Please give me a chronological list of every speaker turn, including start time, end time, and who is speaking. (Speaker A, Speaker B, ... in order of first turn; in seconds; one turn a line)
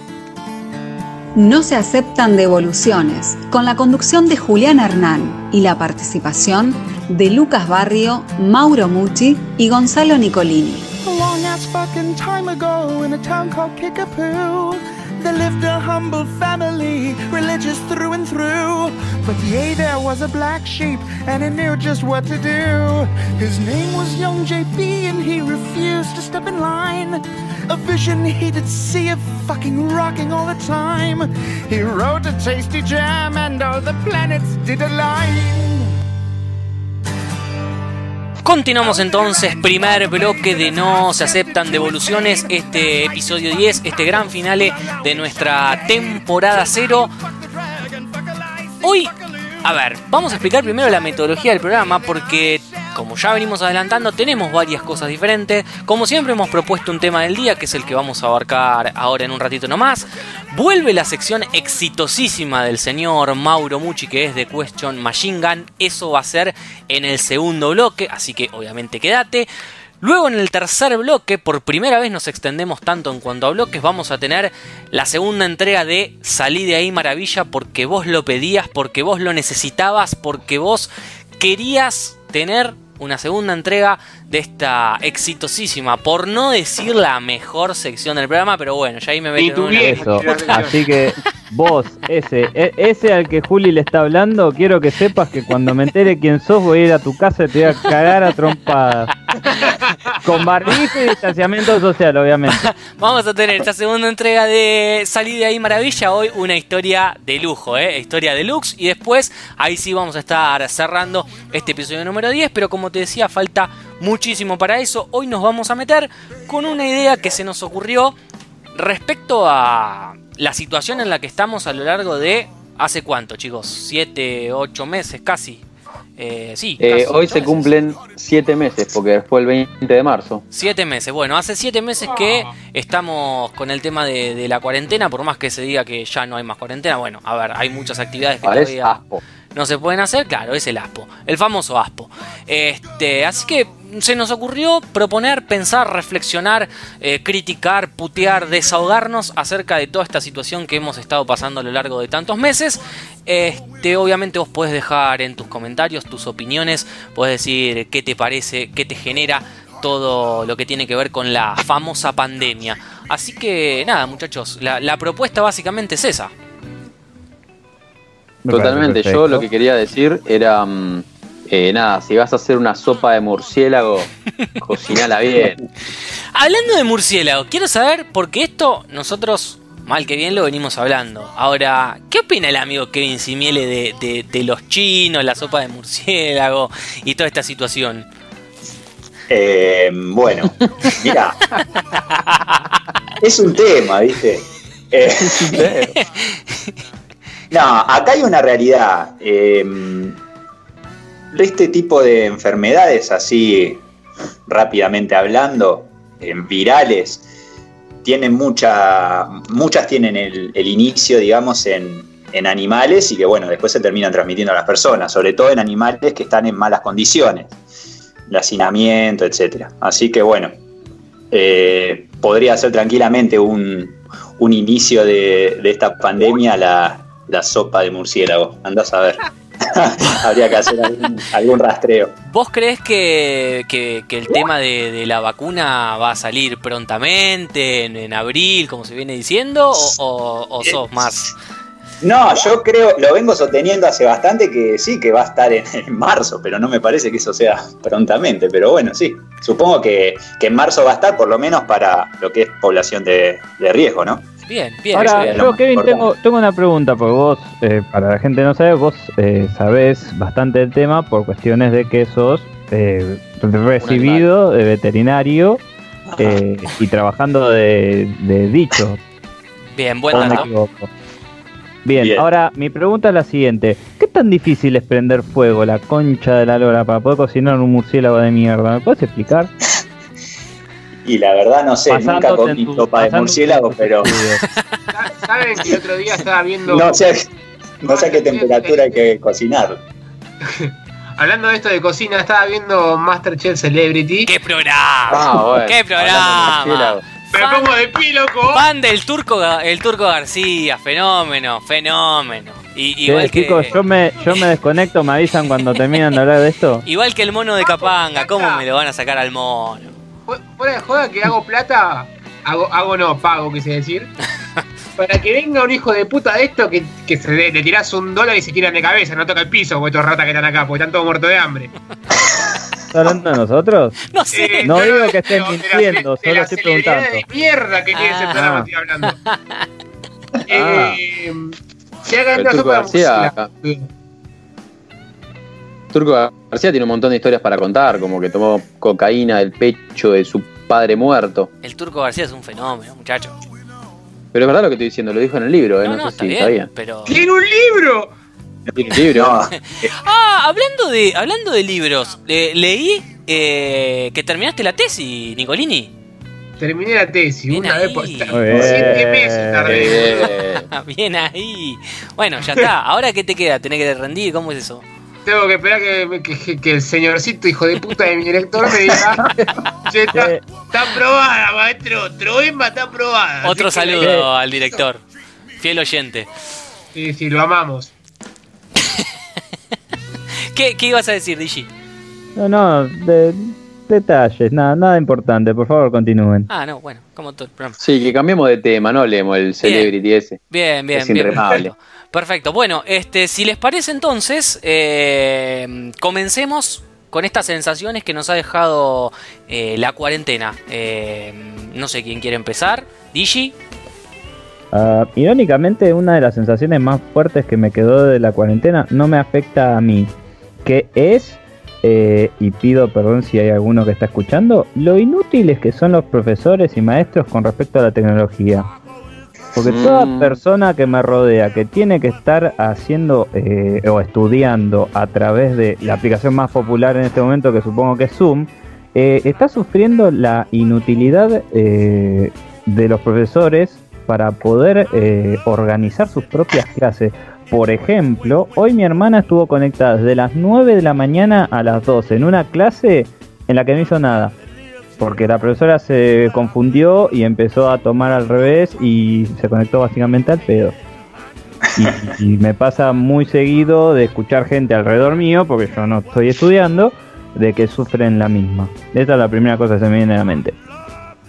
Speaker A: 1.4-10.9
Speaker B: 11.1-35.9
Speaker C: 38.4-47.1
Speaker C: 48.8-69.5
Speaker C: 70.0-90.6
Speaker D: 89.4-90.8
Speaker E: 89.8-99.1
Speaker D: 99.5-100.2
Speaker E: 100.2-102.7
Speaker C: 102.5-118.2
Speaker C: 118.7-125.6
Speaker C: 126.2-127.7
Speaker F: 126.8-130.4
Speaker C: 130.5-139.0
Speaker D: 132.1-132.5
Speaker F: 138.4-139.2
Speaker C: 139.5-166.3
Speaker E: 168.4-169.5
Speaker F: 168.5-174.1
Speaker F: 174.6-175.6
Speaker C: 176.3-188.1
Speaker G: 189.3-191.4
Speaker C: 192.1-192.7
Speaker G: 193.2-195.6
Speaker F: 195.2-196.0
Speaker C: 196.2-196.5
Speaker G: 197.5-200.2
Speaker G: 201.3-203.8
Speaker G: 204.5-207.2
Speaker G: 208.0-217.6
Speaker G: 218.3-220.6
Speaker G: 221.3-232.2
Speaker C: 232.3-241.3
Speaker G: 240.6-241.1
Speaker G: 242.0-254.3
Speaker C: 254.5-255.4
Speaker G: 254.9-256.1
Speaker E: 254.9-265.6
Speaker F: 263.8-264.2
Speaker G: 266.1-266.4
Speaker E: 266.2-269.0
Speaker C: 269.8-270.5
Speaker G: 270.1-270.5
Speaker E: 270.1-270.9
Speaker E: 271.9-279.5
Speaker G: 272.0-272.2
Speaker G: 281.1-284.2
Speaker E: 281.9-284.4
Speaker D: 284.9-287.0
Speaker G: 286.7-287.2
Speaker G: 287.8-289.8
Speaker D: 287.9-289.0
Speaker D: 290.4-294.3
Speaker C: 294.3-297.7
Speaker F: 295.1-297.1
Speaker D: 297.3-298.6
Speaker C: 298.5-303.7
Speaker E: 303.1-306.9
Speaker C: 306.9-309.9
Speaker D: 307.6-308.6
Speaker D: 310.3-314.1
Speaker D: 315.0-321.7
Speaker E: 322.9-324.0
Speaker C: 324.1-324.9
Speaker D: 324.3-329.2
Speaker E: 324.6-327.2
Speaker C: 328.0-329.7
Speaker D: 330.5-333.9
Speaker F: 330.5-331.0
Speaker F: 332.4-333.5
Speaker F: 335.9-341.5
Speaker C: 341.6-343.4
Speaker F: 344.3-346.7
Speaker C: 345.8-347.2
Speaker D: 347.1-348.1
Speaker G: 348.7-349.9
Speaker F: 348.8-349.4
Speaker C: 349.6-355.9
Speaker D: 356.6-360.3
Speaker C: 357.5-358.4
Speaker E: 358.3-359.9
Speaker F: 358.6-358.9
Speaker F: 359.6-360.7
Speaker C: 360.1-364.9
Speaker D: 365.3-374.2
Speaker E: 370.1-370.4
Speaker C: 373.4-375.0
Speaker E: 374.0-374.3
Speaker C: 375.6-376.3
Speaker D: 376.9-377.9
Speaker C: 380.5-381.7
Speaker E: 382.4-386.5
Speaker C: 386.5-387.8
Speaker F: 387.8-390.4
Speaker C: 389.6-389.9
Speaker C: 390.5-403.6
Speaker F: 390.9-391.7
Speaker G: 391.4-391.6
Speaker E: 404.7-410.1
Speaker E: 410.6-418.7
Speaker E: 419.6-444.4
Speaker F: 419.6-420.4
Speaker E: 445.0-450.8
Speaker E: 451.8-460.6